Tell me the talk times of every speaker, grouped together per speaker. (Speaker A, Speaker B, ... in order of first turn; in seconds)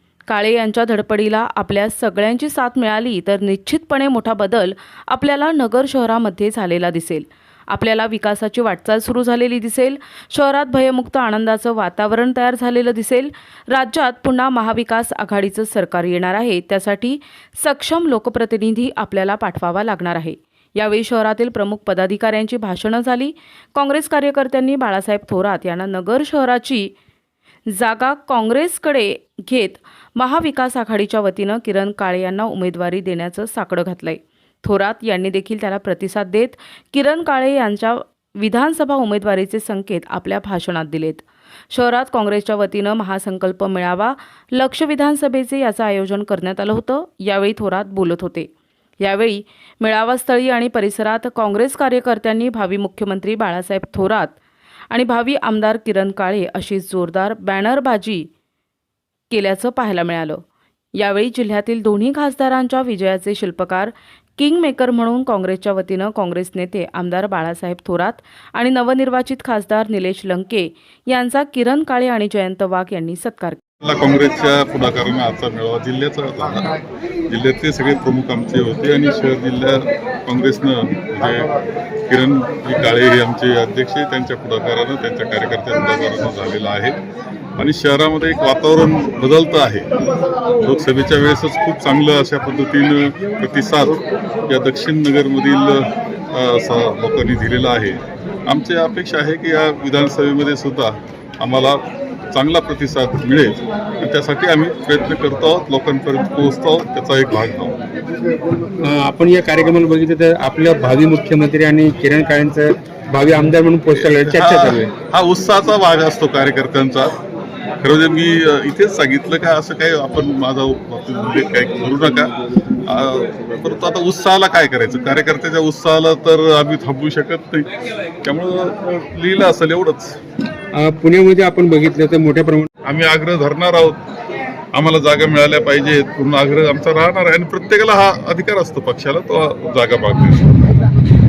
Speaker A: 0.3-26.9, 27.7-48.5, 49.0-54.4, 54.9-58.3, 59.3-60.4, 61.0-73.6
Speaker B: 73.8-76.7, 77.3-81.5, 82.1-87.0, 87.6-89.9, 90.6-101.8, 102.3-107.7, 113.9-117.1, 117.8-122.3, 122.8-127.7, 128.2-130.2, 132.8-134.0, 134.7-140.6
Speaker C: 108.8-114.9, 130.8-132.7